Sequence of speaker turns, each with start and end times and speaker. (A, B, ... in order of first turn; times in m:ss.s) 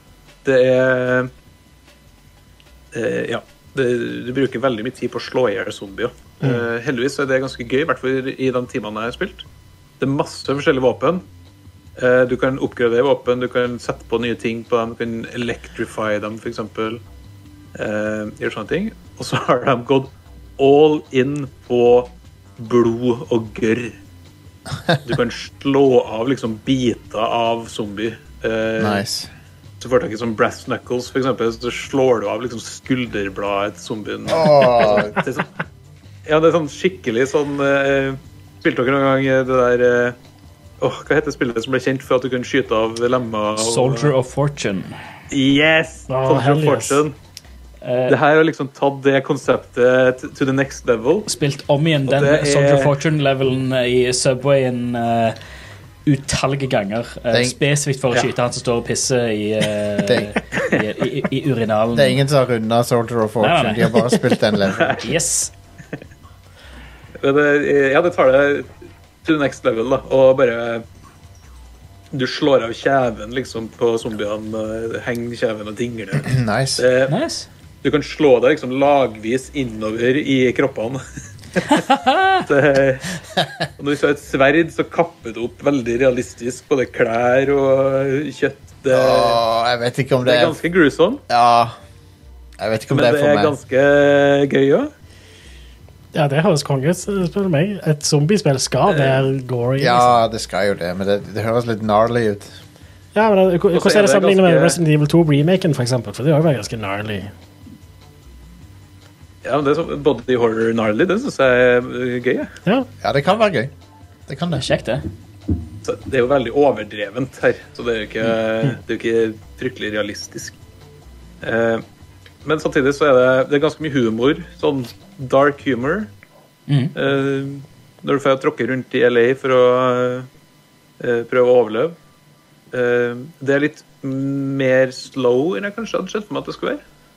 0:00.4-0:01.3 A
0:02.9-0:09.4 A
0:10.0-0:11.2 A
0:12.0-0:17.0 A
0:17.7-0:24.0 A
0:25.0-0:29.0 A
0:28.8-0:29.3 B
0:29.8-0:35.5 A
0:34.3-0:35.2 B
0:36.3-0:40.2 A
0:40.8-0:44.1 A
0:43.6-0:44.9 C
0:45.3-0:47.1 A
0:46.1-0:47.0 D
0:47.8-0:48.2 C
0:48.1-0:51.3 A
0:51.3-0:55.4 C
0:52.1-0:52.9 A
0:56.1-1:02.2 C
0:57.3-0:57.6 B
1:00.0-1:00.3 B
1:01.9-1:05.0 B
1:03.4-1:04.0 C
1:04.7-1:05.0 A
1:05.0-1:05.5 C
1:07.2-1:08.7 A
1:09.2-1:10.8 A
1:12.1-1:17.1 A
1:16.2-1:16.8 B
1:17.1-1:17.5 C
1:17.8-1:21.0 A
1:21.6-1:21.8 A
1:21.7-1:22.4 C
1:22.4-1:23.1 A
1:23.8-1:29.4 A
1:28.9-1:30.6 B
1:30.2-1:31.2 A
1:31.3-1:31.8 B
1:32.6-1:33.6 B
1:32.9-1:34.9 A
1:36.1-1:40.1 D
1:38.9-1:39.3 A
1:39.8-1:42.5 B
1:43.1-1:47.3 D
1:43.7-1:44.8 A
1:49.4-1:52.5 A
1:53.0-1:53.7 B
1:54.3-1:54.6 B
1:54.6-1:55.0 C
1:55.8-2:00.6 A
2:01.4-2:01.8 A
2:02.4-2:06.1 A
2:06.7-2:06.9 C
2:06.9-2:10.3 A
2:11.0-2:12.0 A
2:12.7-2:16.8 A